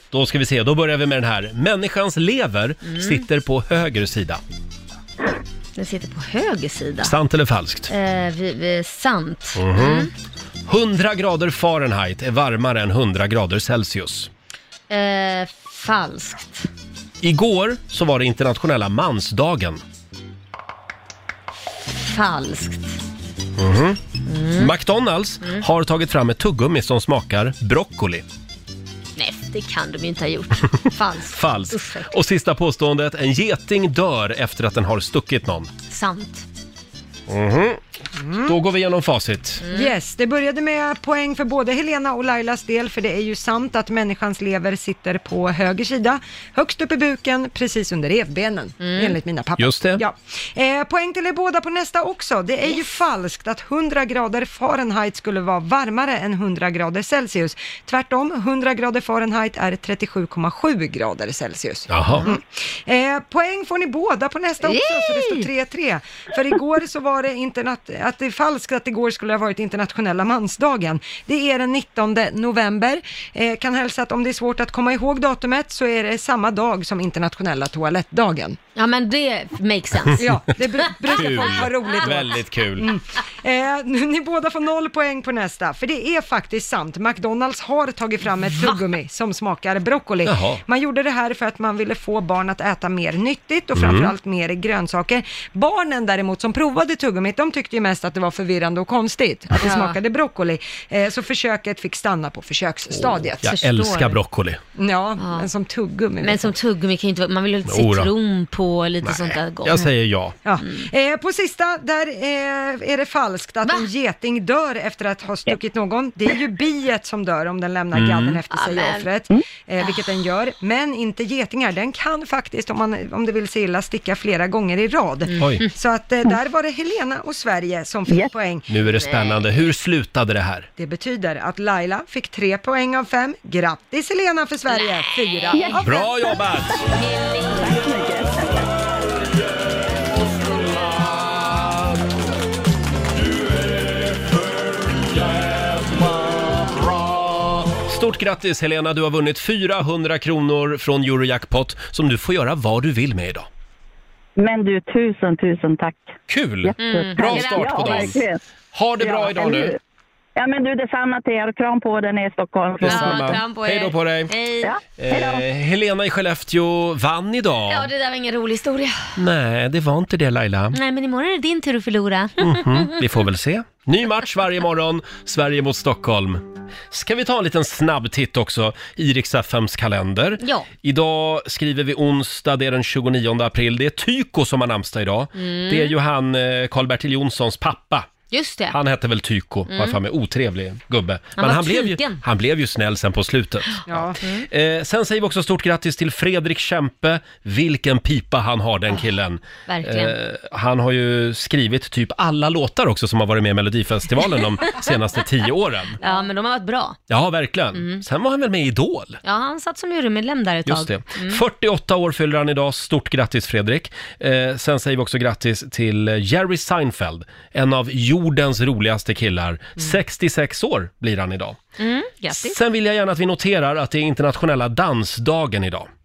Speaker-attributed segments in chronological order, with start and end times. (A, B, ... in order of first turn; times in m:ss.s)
0:00.1-0:04.4 A
0:02.9-0:03.2 B
0:05.8-0:07.2 B
0:07.0-0:07.9 A
0:07.9-0:10.1 B
0:09.6-0:10.1 A
0:10.7-0:14.3 A
0:14.9-0:16.7 B
0:17.2-0:19.8 A
0:22.1-0:23.0 B
0:23.6-0:24.0 A
0:24.3-0:24.7 B
0:24.6-0:28.2 A
0:29.2-0:32.1 B
0:31.3-0:35.7 A
0:35.9-0:36.5 B
0:37.3-0:37.8 A
0:38.2-0:38.5 C
0:38.4-0:39.6 A
0:39.6-0:39.9 B
0:39.7-1:18.6 C
0:48.8-0:49.2 B
0:49.6-0:50.0 A
1:01.9-1:02.3 A
1:04.6-1:05.5 B
1:18.8-1:20.3 B
1:20.2-1:43.5 C
1:21.1-1:22.9 A
1:28.5-1:28.8 B
1:30.2-1:30.6 A
1:33.8-1:34.1 A
1:39.6-1:40.0 B
1:43.0-1:44.6 A
1:43.4-1:44.2 B
1:44.8-1:46.6 C
1:45.2-1:45.5 B
1:46.2-1:49.9 B
1:47.7-1:48.1 A
1:49.0-1:50.4 A
1:50.4-2:08.7 C
1:50.6-1:50.9 B
1:57.9-1:58.4 A
1:58.5-1:59.0 B
2:05.3-2:05.7 B
2:08.7-2:10.7 A
2:09.0-2:09.4 B
2:10.8-2:16.1 C
2:15.4-2:15.8 B
2:15.5-2:15.8 D
2:15.8-2:16.9 A
2:16.9-2:17.8 B
2:17.6-2:18.6 D
2:27.8-2:33.5 A
2:34.4-2:36.1 D
2:36.3-2:38.2 A
2:36.6-2:38.4 D
2:36.8-2:38.2 B
2:38.7-2:39.8 A
2:39.0-2:39.8 D
2:40.4-2:43.4 D
2:42.8-2:44.3 A
2:42.8-2:44.7 B
2:44.6-2:45.4 D
2:45.0-2:47.9 A
2:47.7-2:49.2 B
2:49.2-2:50.8 A
2:50.7-2:52.9 B
2:52.4-3:08.1 A
3:00.4-3:00.7 B
3:05.4-3:05.9 B
3:08.3-3:08.8 B
3:08.7-3:26.0 A
3:09.7-3:10.0 B
3:11.4-3:12.2 B
3:13.9-3:14.2 C
3:19.7-3:20.2 B
3:26.0-3:27.0 B
3:27.1-3:29.2 A
3:27.8-3:28.0 B
3:29.2-3:31.4 B
3:30.7-3:41.6 A
3:41.8-3:42.6 B
3:42.3-3:45.9 A